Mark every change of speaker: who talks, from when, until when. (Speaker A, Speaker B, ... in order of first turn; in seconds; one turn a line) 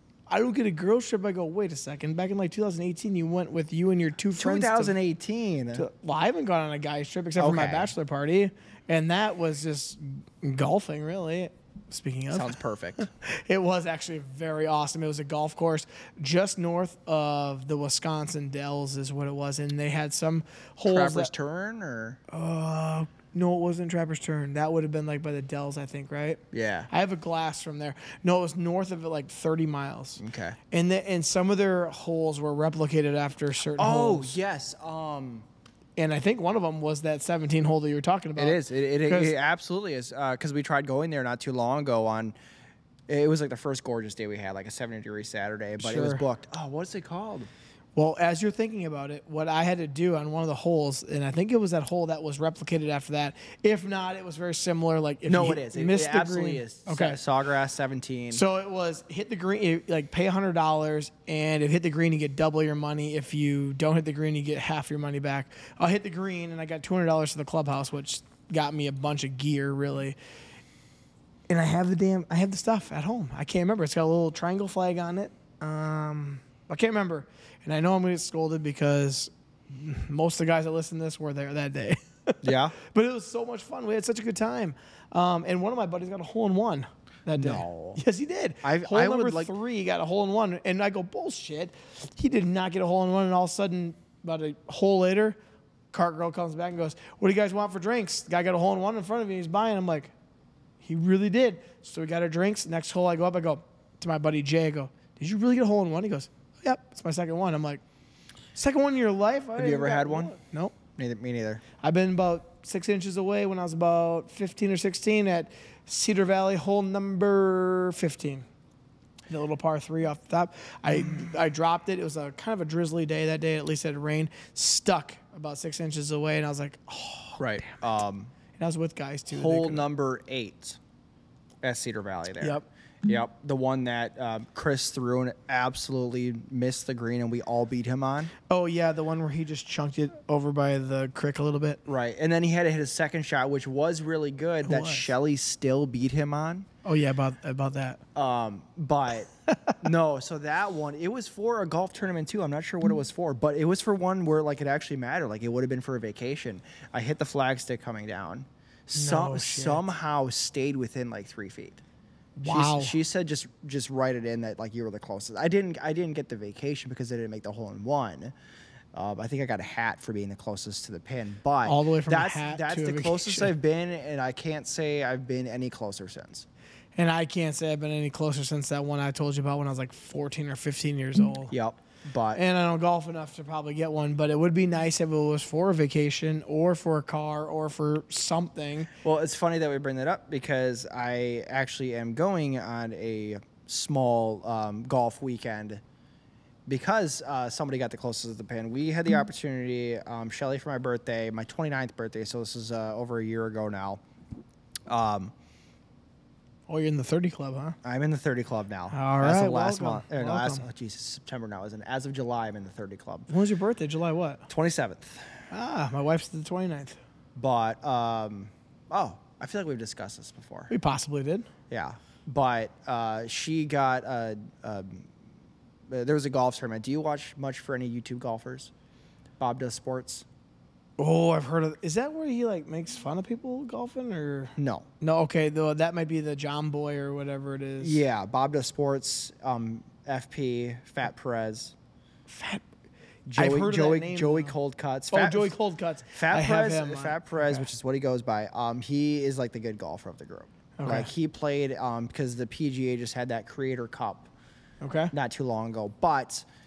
Speaker A: 0.3-4.9
Speaker B: 4.4-5.9
Speaker A: 5.8-21.3
Speaker B: 7.4-7.9
Speaker B: 12.3-13.1
Speaker B: 20.9-22.2
Speaker A: 22.3-34.4
Speaker B: 26.5-26.9
Speaker B: 30.2-30.6
Speaker B: 33.8-35.5
Speaker A: 36.0-39.3
Speaker B: 38.4-42.4
Speaker B: 43.1-47.5
Speaker A: 45.8-46.2
Speaker A: 48.0-57.2
Speaker B: 55.3-58.4
Speaker A: 58.3-70.2
Speaker A: 71.5-95.4
Speaker B: 82.4-82.8
Speaker B: 87.3-88.0
Speaker B: 88.6-89.5
Speaker A: 95.9-100.1
Speaker A: 100.8-107.8
Speaker A: 108.5-110.8
Speaker B: 109.6-110.4
Speaker B: 111.0-111.6
Speaker A: 111.8-118.5
Speaker A: 119.3-127.7
Speaker B: 127.4-128.3
Speaker A: 128.6-129.9
Speaker B: 129.3-130.8
Speaker B: 131.6-138.3
Speaker A: 138.5-141.8
Speaker B: 141.9-146.7
Speaker A: 144.6-145.1
Speaker A: 146.8-148.0
Speaker B: 148.2-149.3
Speaker A: 149.5-149.8
Speaker B: 149.8-161.8
Speaker A: 158.9-159.9
Speaker A: 162.4-162.9
Speaker B: 162.5-168.3
Speaker B: 168.9-176.5
Speaker A: 171.7-173.5
Speaker A: 177.0-181.6
Speaker B: 181.5-182.4
Speaker A: 182.3-188.9
Speaker B: 189.0-195.8
Speaker B: 196.7-204.0
Speaker B: 204.9-205.3
Speaker A: 206.7-207.8
Speaker B: 207.8-213.3
Speaker A: 208.9-210.6
Speaker A: 213.3-214.5
Speaker B: 214.5-215.4
Speaker A: 215.5-217.0
Speaker B: 217.4-220.7
Speaker A: 220.7-221.5
Speaker B: 221.7-225.1
Speaker B: 225.9-228.7
Speaker B: 229.4-230.3
Speaker A: 231.0-238.0
Speaker B: 234.6-234.9
Speaker B: 237.8-241.8
Speaker A: 242.3-242.7
Speaker B: 243.3-245.6
Speaker A: 243.4-244.6
Speaker A: 245.1-247.7
Speaker B: 246.1-254.3
Speaker A: 250.8-251.1
Speaker A: 254.8-255.1
Speaker B: 255.1-256.5